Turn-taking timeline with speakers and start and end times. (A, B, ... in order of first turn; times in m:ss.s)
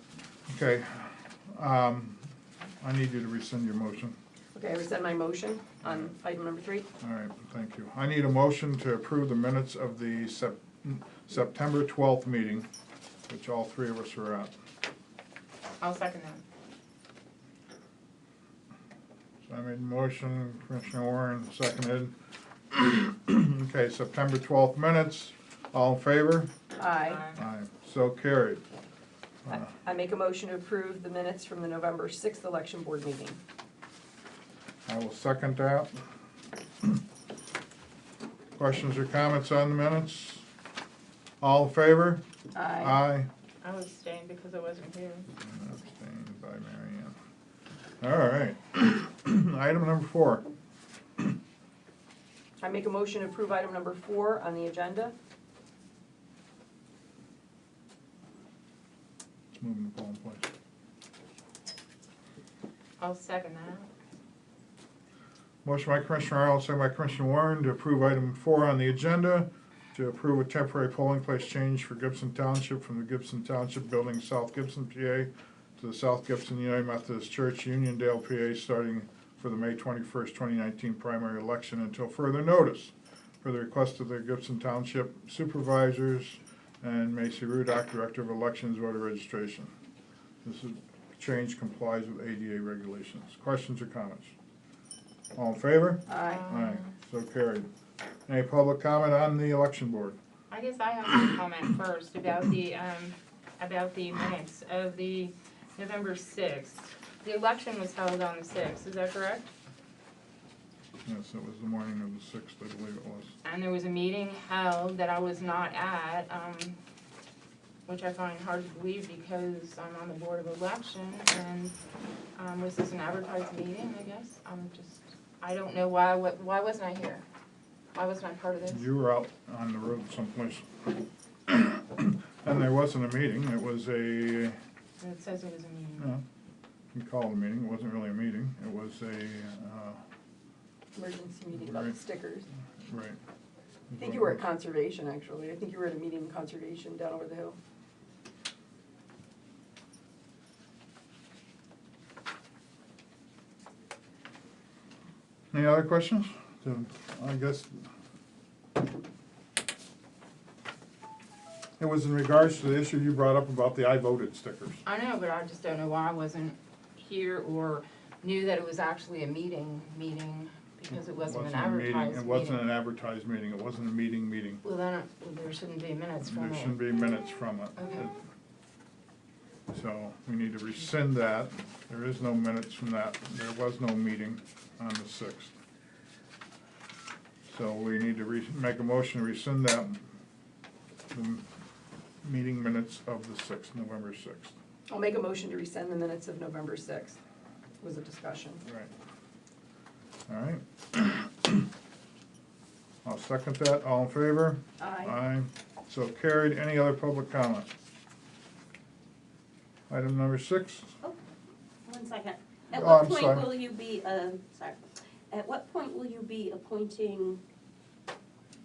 0:00.5-0:02.2 A
0:02.8-0:04.2 A
0:04.6-0:06.9 B
0:05.8-0:06.1 A
0:07.0-0:12.7 A
0:13.3-0:14.5 A
0:15.8-0:16.4 C
0:19.5-0:22.1 A
0:22.7-0:26.5 A
0:26.8-0:27.2 B
0:27.1-0:27.4 C
0:27.3-0:28.6 A
0:29.5-0:33.4 B
0:34.9-0:35.9 A
0:38.6-0:40.5 A
0:41.4-0:42.2 A
0:42.5-0:43.0 B
0:42.8-0:43.3 A
0:43.6-0:45.3 C
0:45.4-0:47.2 A
0:48.0-0:50.4 A
0:52.6-0:55.2 B
0:59.6-1:00.5 A
1:03.0-1:03.9 C
1:05.6-1:29.7 A
1:30.4-1:34.4 A
1:35.4-1:37.7 A
1:36.1-1:36.5 B
1:36.4-1:36.9 C
1:38.3-1:40.2 A
1:40.5-1:49.5 C
1:51.0-1:53.4 A
1:53.4-1:56.8 C
1:57.9-2:01.7 C
2:02.4-2:07.2 C
2:07.9-2:08.8 C
2:08.7-2:10.7 A
2:11.5-2:14.6 A
2:15.0-2:16.0 C
2:16.9-2:20.0 A
2:21.0-2:22.5 B
2:21.6-2:22.0 A
2:22.8-2:23.2 A
2:23.9-2:24.4 A
2:24.0-2:27.6 B
2:35.5-2:37.8 A
2:41.8-2:44.8 A
2:44.8-2:52.6 C
2:51.1-2:54.6 A
2:54.6-2:56.8 C
2:56.2-2:58.1 A
2:57.8-2:58.1 C
2:59.7-3:05.5 A
3:07.5-3:10.0 A
3:11.1-3:11.4 A
3:12.2-3:14.5 A
3:14.9-3:17.2 B
3:17.8-3:18.6 B
3:18.6-3:18.9 A
3:20.3-3:21.7 A
3:23.0-3:27.7 A
3:24.8-3:25.1 B
3:29.9-3:30.9 A
3:31.9-3:34.8 D
3:32.7-3:33.5 A
3:35.3-3:37.4 D